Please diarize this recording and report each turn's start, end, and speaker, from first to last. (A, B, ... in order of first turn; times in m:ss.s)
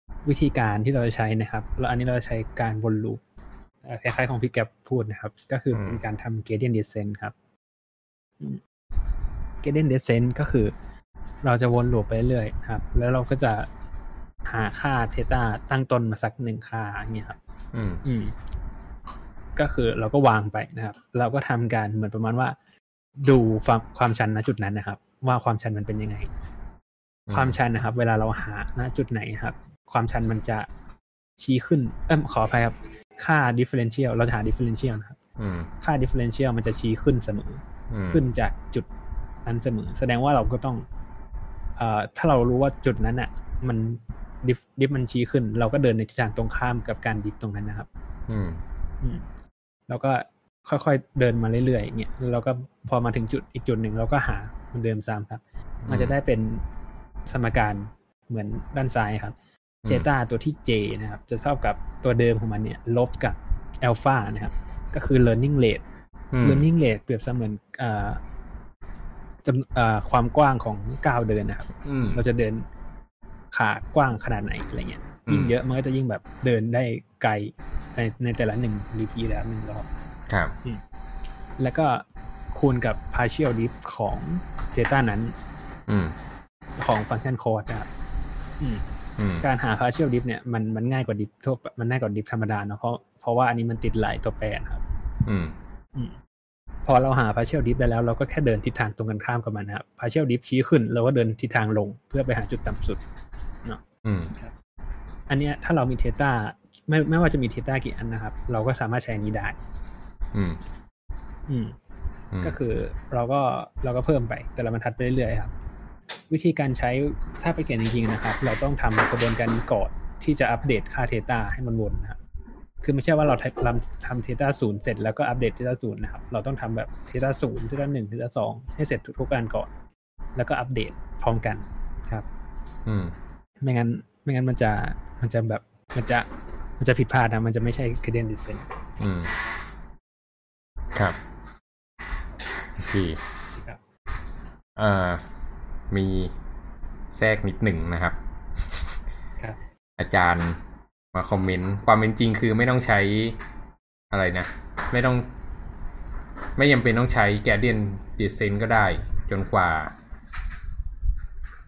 0:00.2-0:03.2 A
0:03.8-0:07.3 A
0:05.7-0:06.0 B
0:09.6-0:10.7 A
0:11.4-0:13.7 A
0:14.4-0:17.4 A
0:17.7-0:18.0 B
0:18.0-0:18.4 A
0:19.6-0:22.6 A
0:23.2-0:26.3 A
0:27.3-0:27.6 B
0:27.3-0:30.7 A
0:31.4-0:35.2 A
0:35.4-0:35.7 B
0:35.8-0:38.9 A
0:37.9-0:38.2 B
0:39.4-0:40.8 A
0:41.8-0:47.9 A
0:48.3-0:48.6 B
0:49.9-0:56.6 A
0:55.8-0:56.1 B
0:57.2-0:59.4 A
0:59.9-1:05.8 A
1:06.3-1:06.7 B
1:06.4-1:08.2 A
1:09.4-1:12.6 A
1:11.8-1:12.2 B
1:13.5-1:19.9 A
1:15.2-1:15.5 B
1:20.3-1:20.5 B
1:21.6-1:25.3 A
1:25.9-1:26.2 B
1:26.8-1:27.9 A
1:28.6-1:28.8 A
1:29.2-1:29.4 B
1:29.4-1:34.8 A
1:35.2-1:35.6 B
1:36.8-1:43.0 A
1:44.0-1:44.3 B
1:45.3-1:49.6 A
1:50.3-1:50.6 B
1:51.5-1:51.8 A
1:52.4-1:55.5 A
1:56.2-2:02.2 A
2:02.8-2:09.7 A
2:10.3-2:12.2 A
2:12.8-2:13.1 B
2:13.6-2:16.3 A
2:16.8-2:18.7 A
2:19.0-2:19.3 B
2:22.8-2:23.2 B
2:24.8-2:25.2 B
2:25.9-2:26.3 B
2:27.1-2:28.2 B
2:30.0-2:30.6 B
2:31.1-2:33.4 B
2:34.1-2:35.3 B
2:36.6-2:39.9 B